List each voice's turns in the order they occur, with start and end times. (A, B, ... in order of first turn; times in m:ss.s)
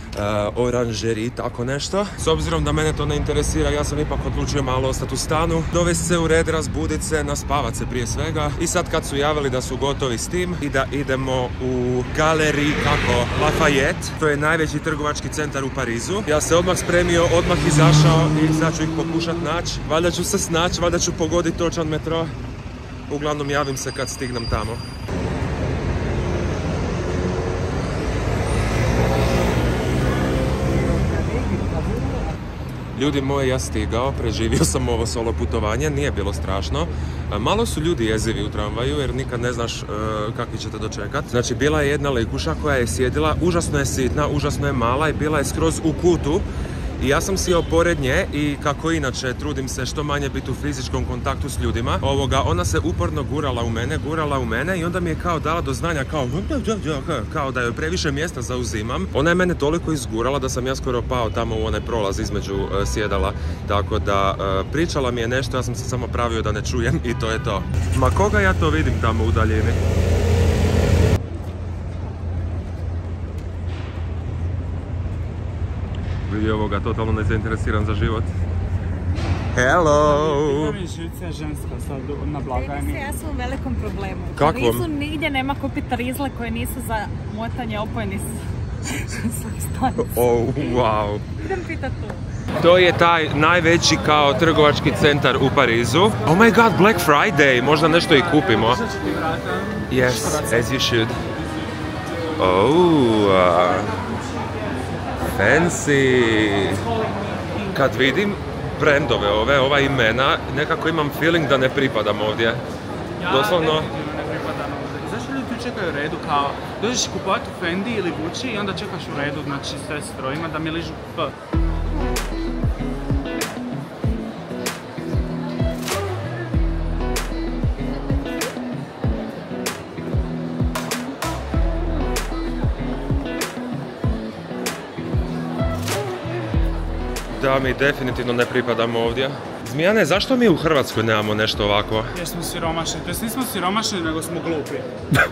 0:00.2-0:22.3 A
0:23.1-0:24.8 A
0:33.0-0:46.5 A
0:47.0-1:09.8 A
1:16.3-1:18.3 A
1:19.5-1:20.8 A
1:20.0-1:23.0 B
1:22.5-1:28.4 C
1:24.4-1:24.9 A
1:29.0-1:30.8 C
1:30.0-1:31.3 A
1:31.4-1:32.2 C
1:32.6-1:38.8 A
1:36.2-1:36.6 B
1:38.0-1:40.7 B
1:39.9-1:41.2 A
1:42.4-1:43.9 A
1:45.4-1:46.8 A
1:47.7-1:52.6 A
1:53.2-2:01.3 B
1:53.3-1:53.9 A
2:17.4-2:22.1 A
2:22.1-2:24.9 B